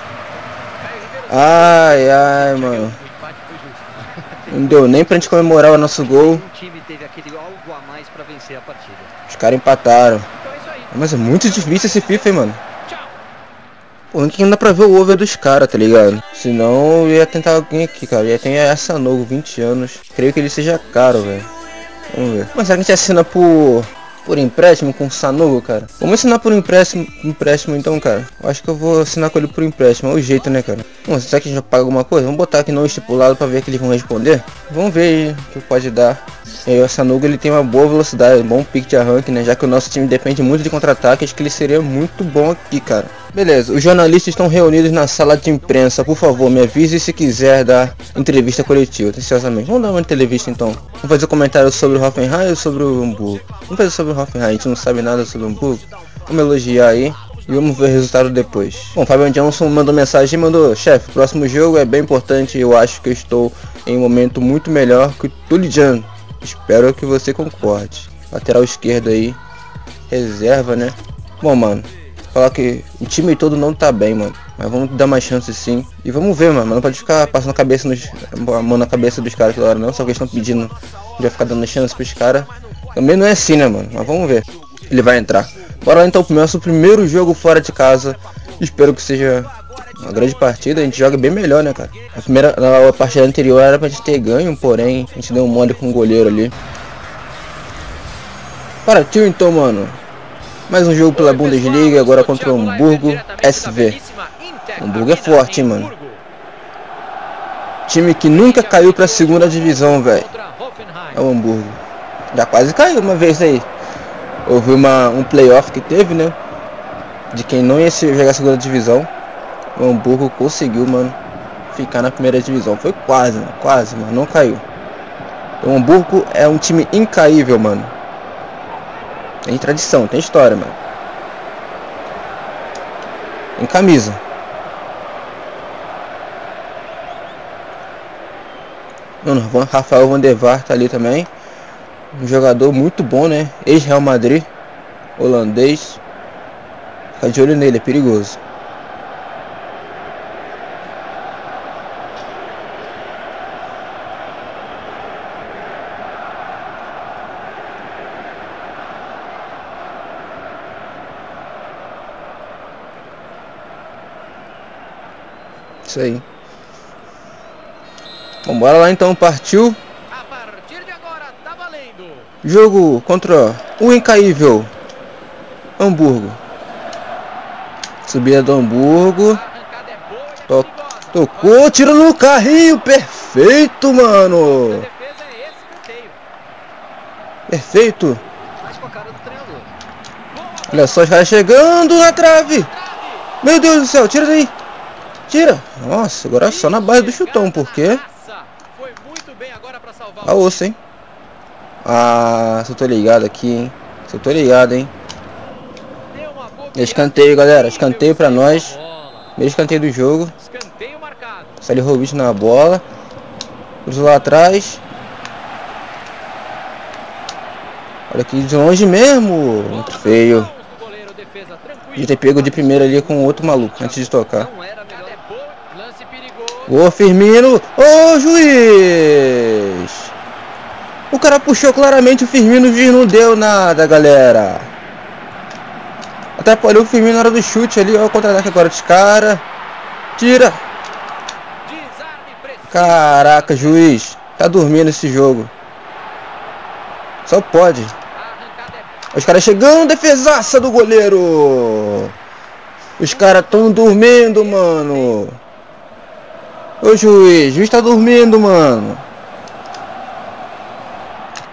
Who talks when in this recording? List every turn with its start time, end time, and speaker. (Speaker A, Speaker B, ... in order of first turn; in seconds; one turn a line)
Speaker A: 0.8-3.9
Speaker B: 1.3-3.0
Speaker C: 4.0-9.1
Speaker B: 4.5-6.4
Speaker B: 9.3-10.3
Speaker A: 10.4-13.1
Speaker B: 10.9-12.6
Speaker B: 14.1-21.5
Speaker B: 22.1-69.4
Speaker A: 57.2-58.3
Speaker B: 70.1-96.5
Speaker A: 90.2-90.8
Speaker B: 98.8-100.0
Speaker B: 100.7-104.0
Speaker A: 101.1-106.2
Speaker B: 104.8-105.9
Speaker B: 107.9-110.3
Speaker A: 108.2-111.2
Speaker B: 111.1-111.8
Speaker B: 112.3-113.7
Speaker B: 114.5-116.4
Speaker B: 117.3-119.1
Speaker B: 119.8-121.2
Speaker B: 121.7-124.6
Speaker B: 125.6-127.9
Speaker B: 129.4-130.8
Speaker B: 133.6-134.2
Speaker B: 139.2-141.3
Speaker B: 142.1-144.5
Speaker B: 145.2-146.0
Speaker B: 147.2-148.4
Speaker B: 165.8-166.2
Speaker B: 168.4-169.8
Speaker A: 170.1-172.3
Speaker B: 172.4-174.7
Speaker B: 175.8-176.4
Speaker B: 178.0-179.4
Speaker A: 179.2-181.8
Speaker B: 180.5-184.9
Speaker A: 184.5-186.2
Speaker B: 187.5-188.2
Speaker C: 188.6-189.7
Speaker A: 190.3-191.1
Speaker B: 190.7-192.7
Speaker A: 192.5-193.3
Speaker B: 193.4-194.5
Speaker B: 195.3-198.0
Speaker A: 196.4-200.6
Speaker B: 200.2-200.8
Speaker B: 201.8-204.9
Speaker A: 206.1-209.3
Speaker B: 206.7-208.8
Speaker B: 209.4-210.3
Speaker A: 210.4-211.6
Speaker B: 211.6-212.8
Speaker B: 213.8-214.8
Speaker B: 218.1-220.5
Speaker A: 219.6-222.3
Speaker B: 221.9-224.5
Speaker C: 222.6-225.2
Speaker A: 224.9-226.8
Speaker B: 226.7-230.1
Speaker B: 231.1-234.7
Speaker B: 236.4-239.4
Speaker B: 240.2-240.6
Speaker A: 241.6-243.9
Speaker B: 242.7-245.5
Speaker B: 247.2-247.9
Speaker A: 248.1-248.9
Speaker B: 249.1-252.1
Speaker B: 253.0-255.4
Speaker A: 253.0-255.2
Speaker B: 256.8-259.0